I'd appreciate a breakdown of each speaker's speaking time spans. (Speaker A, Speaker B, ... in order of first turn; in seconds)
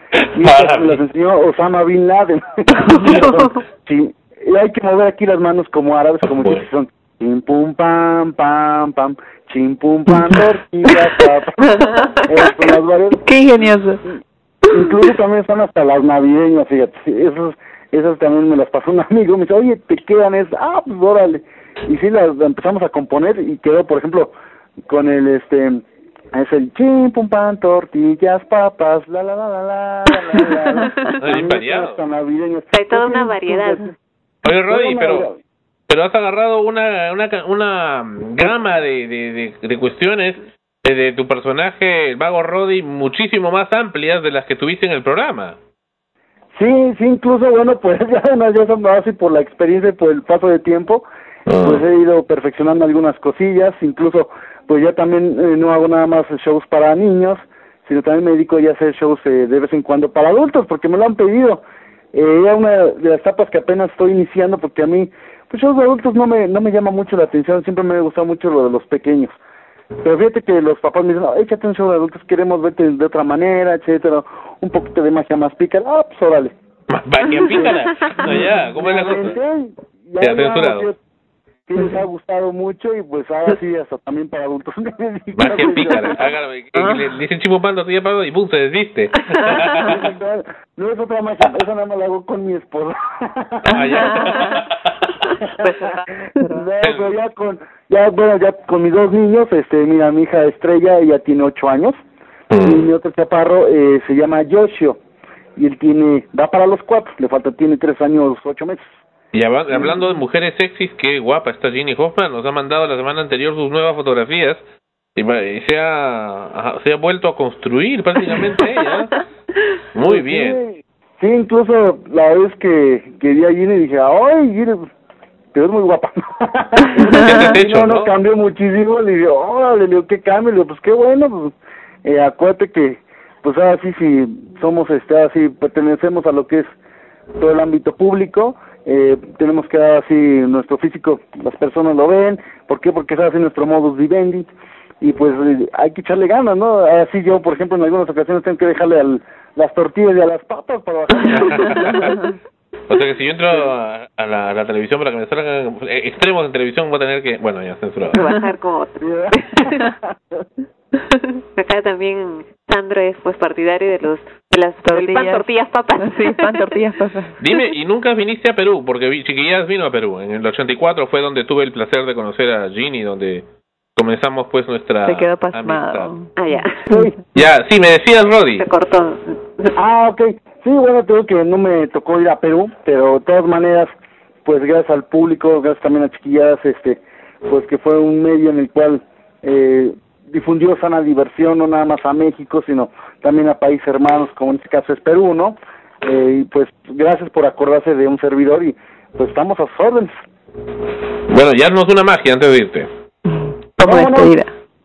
Speaker A: 0.3-1.0, 6.2-6.6, 31.2-32.0, 34.4-35.3, 35.9-45.6, 51.5-51.8, 76.9-79.4, 80.2-80.9, 85.3-90.0, 93.7-94.7, 96.8-97.1, 102.5-102.8, 109.3-114.6, 115.2-119.1, 119.9-120.6, 127.2-128.1, 151.3-152.2, 152.9-158.2, 167.4-173.4, 173.9-176.1, 177.3-178.7, 201.3-202.9
Speaker B: 0.4-13.2, 14.7-24.3, 24.9-25.8, 26.3-33.9, 34.6-35.3, 46.5-51.0, 51.6-69.3, 70.0-76.5, 77.3-80.9, 81.7-86.2, 89.8-94.1, 96.5-102.0, 102.6-105.0, 105.5-108.9, 120.0-124.9, 125.5-136.7, 137.4-144.5, 145.0-152.2, 159.0-159.4, 176.9-177.2, 179.8-183.9, 184.4-200.1, 203.8-204.4
Speaker C: 32.7-33.9, 95.6-96.6, 158.1-159.8, 161.5-167.1, 176.4-177.0, 178.6-179.7
Speaker D: 164.8-165.4, 166.2-167.2, 175.1-176.2